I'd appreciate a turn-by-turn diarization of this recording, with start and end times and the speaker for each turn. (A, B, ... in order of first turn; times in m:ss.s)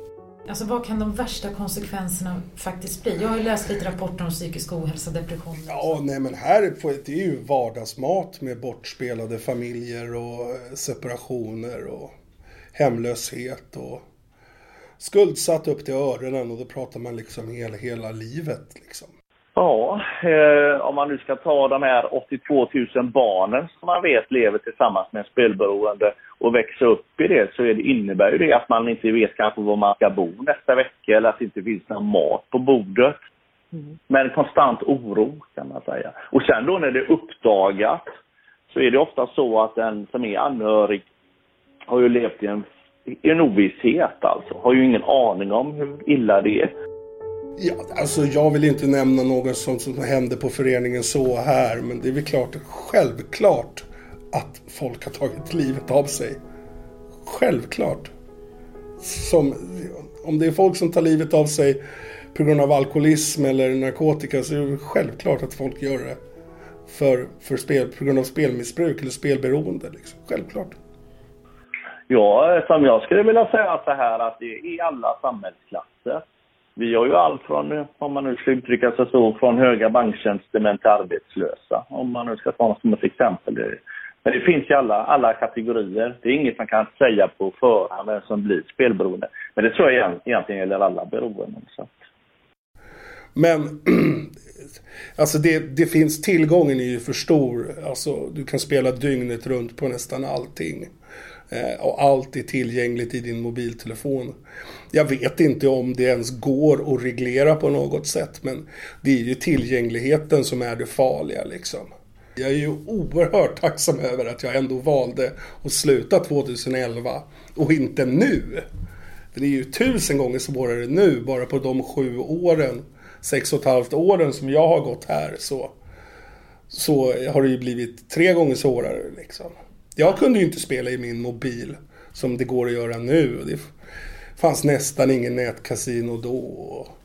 0:00.5-0:05.9 A
0:05.6-0:12.1 B
0:12.8-0:14.0 B
0:15.0-0:19.1 B
0:19.6-0:33.2 C
0:34.1-0:38.0 C
0:38.7-0:41.0 C
0:41.9-0:46.7 C
0:47.6-0:56.4 B
0:57.2-0:58.1 B
0:59.0-1:01.8 B
1:02.3-1:06.2 B
1:06.9-1:10.8 B
1:12.1-1:16.2 C
1:16.8-1:32.0 C
1:33.4-1:34.3 B
1:35.2-1:40.9 B
1:41.5-1:44.4 B
1:44.9-1:58.7 B
1:59.3-2:05.8 B
2:06.7-2:13.7 B
2:14.4-2:16.9 B